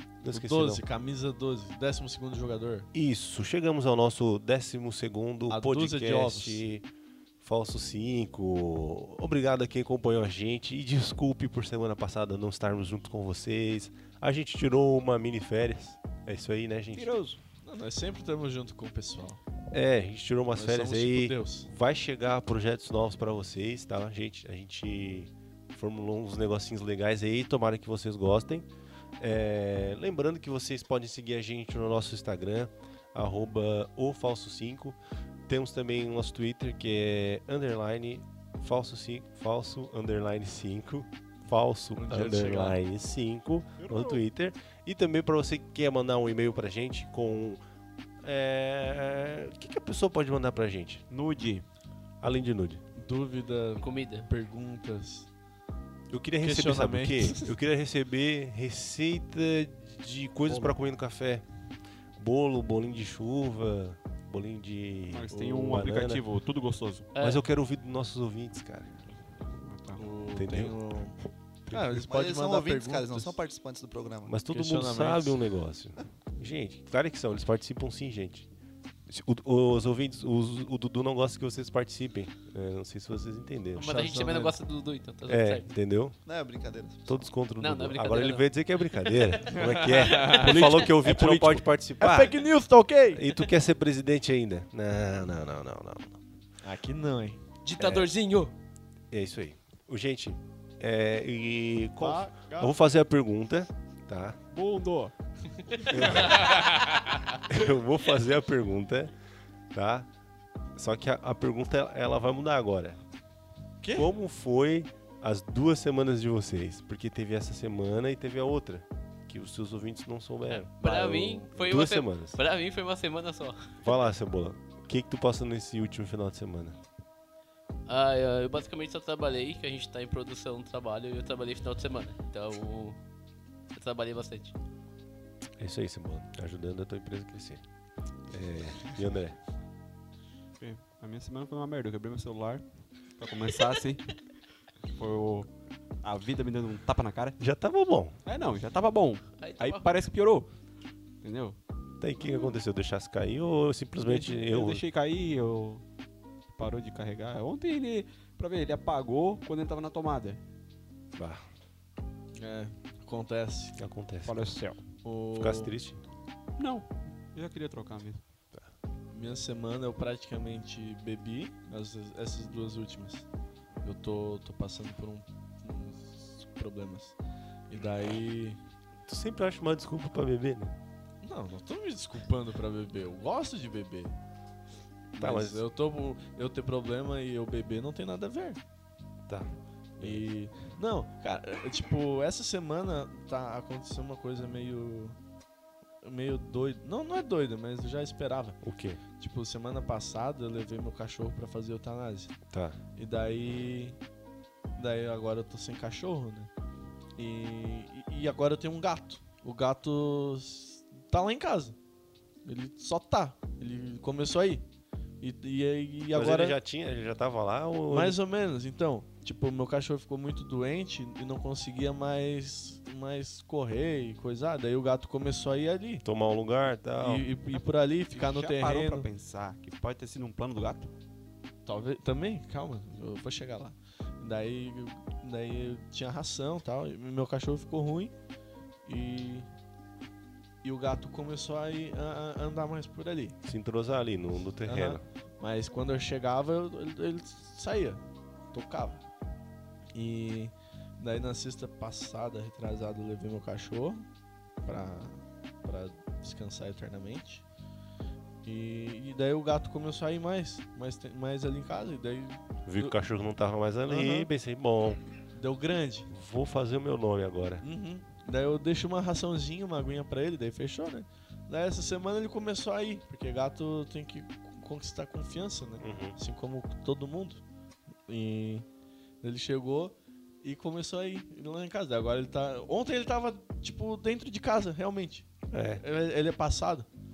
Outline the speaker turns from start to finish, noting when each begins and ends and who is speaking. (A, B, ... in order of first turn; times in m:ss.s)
0:00.2-0:00.8 A
0:00.3-0:02.9 B
0:02.9-0:06.8 A
0:05.5-0:06.6 B
0:07.4-0:17.1 A
0:17.0-0:17.4 C
0:17.6-0:19.4 B
0:19.7-0:28.7 A
0:20.5-0:21.7 B
0:29.2-0:47.6 A
0:42.0-0:42.8 B
0:43.8-0:44.2 C
0:48.2-0:51.0 A
0:51.1-0:51.6 C
0:52.2-0:52.8 A
0:53.0-0:55.3 B
0:53.8-0:54.3 D
0:56.1-1:01.4 A
0:56.4-0:57.5 B
1:00.5-1:00.7 B
1:02.2-1:06.2 A
1:05.1-1:07.1 C
1:07.1-1:07.4 D
1:07.2-1:08.9 A
1:09.5-1:10.0 C
1:10.0-1:13.4 B
1:10.3-1:10.8 A
1:12.0-1:14.3 E
1:14.2-1:18.5 A
1:14.5-1:15.4 B
1:19.1-1:23.9 A
1:23.8-1:25.7 D
1:23.8-1:24.6 B
1:25.3-1:26.2 A
1:26.2-1:27.2 E
1:27.1-1:32.4 A
1:27.6-1:30.6 D
1:29.5-1:30.5 B
1:30.3-1:31.7 C
1:32.0-1:33.2 B
1:33.1-1:36.2 A
1:36.6-1:37.4 B
1:37.6-1:38.5 D
1:37.8-1:38.1 A
1:39.1-1:44.4 A
1:42.0-1:42.7 B
1:44.5-1:45.1 C
1:45.7-1:46.5 C
1:45.9-1:46.5 A
1:46.3-1:47.2 D
1:47.5-1:49.1 A
1:49.7-1:50.1 A
1:50.7-1:53.0 A
1:53.8-1:54.1 B
1:54.0-2:02.4 A
2:00.5-2:03.8 D
2:03.8-2:06.8 A
2:07.9-2:13.0 D
2:13.7-2:14.6 D
2:15.6-2:17.6 A
2:18.3-2:19.4 A
2:20.6-2:24.1 C
2:24.9-2:25.5 C
2:26.0-2:27.4 C
2:27.4-2:28.2 A
2:28.2-2:30.5 C
2:29.4-2:30.0 D
2:31.2-2:31.6 C
2:32.0-2:34.8 A
2:34.0-2:35.8 C
2:36.6-2:40.4 C
2:41.1-2:41.4 A
2:42.4-2:43.8 B
2:43.8-2:44.4 A
2:44.2-2:44.8 C
2:45.0-2:45.7 B
2:45.3-2:46.0 A
2:46.6-2:48.2 C
2:49.1-2:53.2 B
2:53.8-2:57.2 B
2:57.7-2:58.6 B
2:59.1-3:00.7 A
3:01.2-3:04.1 B
3:05.1-3:08.6 B
3:05.2-3:05.6 A
3:09.3-3:10.3 A
3:10.0-3:15.2 B
3:16.0-3:18.6 B
3:18.6-3:19.0 A
3:19.2-3:22.3 B
3:22.5-3:22.8 A
3:23.0-3:24.0 B
3:24.8-3:26.5 B
3:27.2-3:31.8 B
3:32.4-3:34.6 B
3:35.2-3:36.6 B
3:36.1-3:38.2 A
3:37.9-3:46.0 B
3:46.0-3:47.3 A
3:47.0-3:49.1 B
3:48.1-3:50.9 C
3:51.6-3:58.1 B
3:58.8-3:59.5 B
4:00.6-4:03.4 B
4:03.4-4:05.0 A
4:04.6-4:09.0 B
4:09.9-4:14.1 B
4:14.6-4:17.4 B
4:18.4-4:22.9 B
4:22.6-4:25.0 A
4:23.9-4:24.3 B
4:25.3-4:26.1 B
4:26.1-4:27.6 A
4:27.6-4:37.4 B
4:35.8-4:36.2 A
4:38.1-4:38.6 B
4:39.2-4:45.3 B
4:45.5-4:45.8 A
4:45.8-4:46.8 B